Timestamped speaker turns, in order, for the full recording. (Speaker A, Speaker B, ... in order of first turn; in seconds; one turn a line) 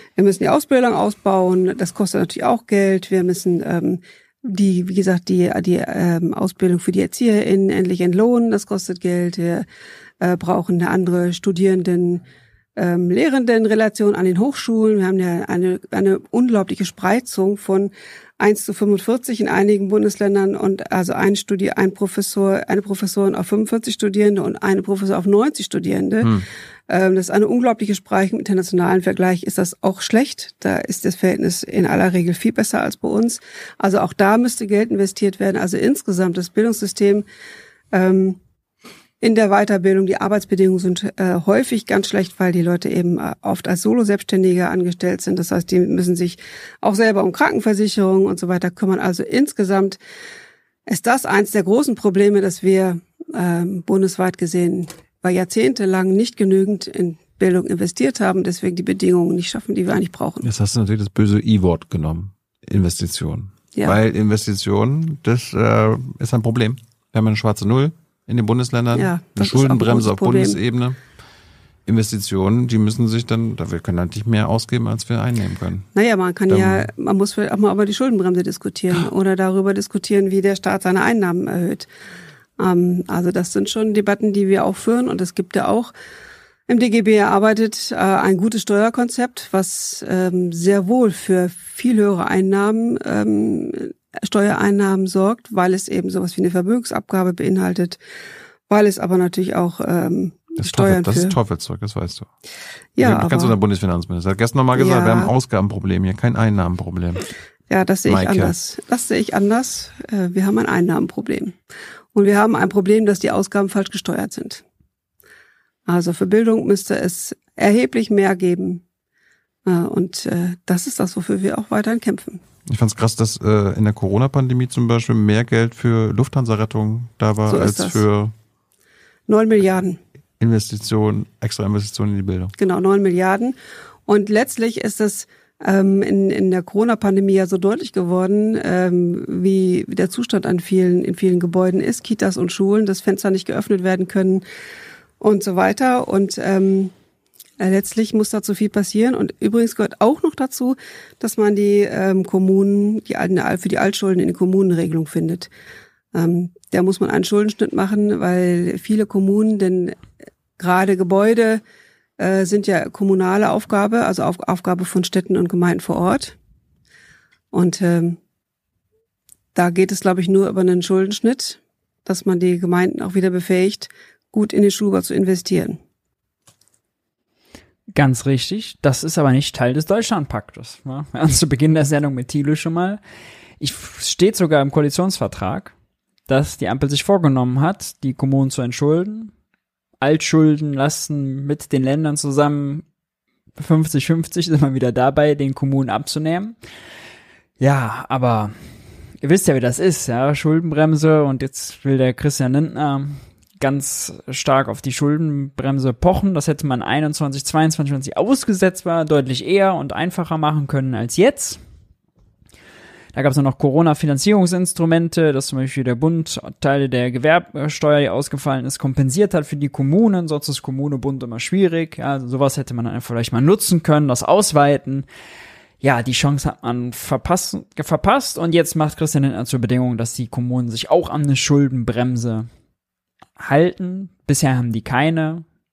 Speaker A: 0.2-9.6
Speaker A: 10.2-12.2
Speaker A: 12.8-26.3
Speaker A: 26.9-37.2
Speaker A: 37.9-38.4
Speaker A: 39.2-50.0
Speaker A: 50.9-60.4
Speaker B: 60.4-71.0
Speaker A: 68.9-70.6
Speaker B: 71.8-75.9
Speaker A: 75.9-81.9
Speaker B: 76.5-76.9
Speaker A: 82.6-85.9
Speaker A: 86.7-98.0
Speaker A: 98.7-101.3
Speaker B: 100.6-102.3
Speaker A: 103.0-103.5
Speaker B: 103.0-107.3
Speaker A: 104.7-105.3
Speaker A: 107.7-111.5
Speaker B: 108.0-108.5
Speaker A: 112.1-114.6
Speaker A: 115.8-118.8
Speaker A: 119.7-122.4
Speaker B: 122.7-128.3
Speaker A: 127.5-128.0
Speaker A: 129.3-130.0
Speaker B: 130.4-132.5
Speaker A: 132.6-133.6
Speaker A: 134.1-144.4
Speaker A: 145.2-146.9
Speaker A: 147.6-155.5
Speaker A: 156.1-159.9
Speaker A: 160.6-161.6
Speaker A: 162.2-166.3
Speaker A: 167.5-168.2
Speaker A: 169.5-175.8
Speaker C: 177.9-183.0
Speaker C: 183.6-185.7
Speaker C: 186.3-189.3
Speaker C: 190.0-192.8
Speaker C: 193.6-196.6
Speaker C: 197.6-198.5
Speaker C: 199.2-211.6
Speaker C: 213.1-225.1
Speaker C: 225.8-232.5
Speaker C: 233.4-235.4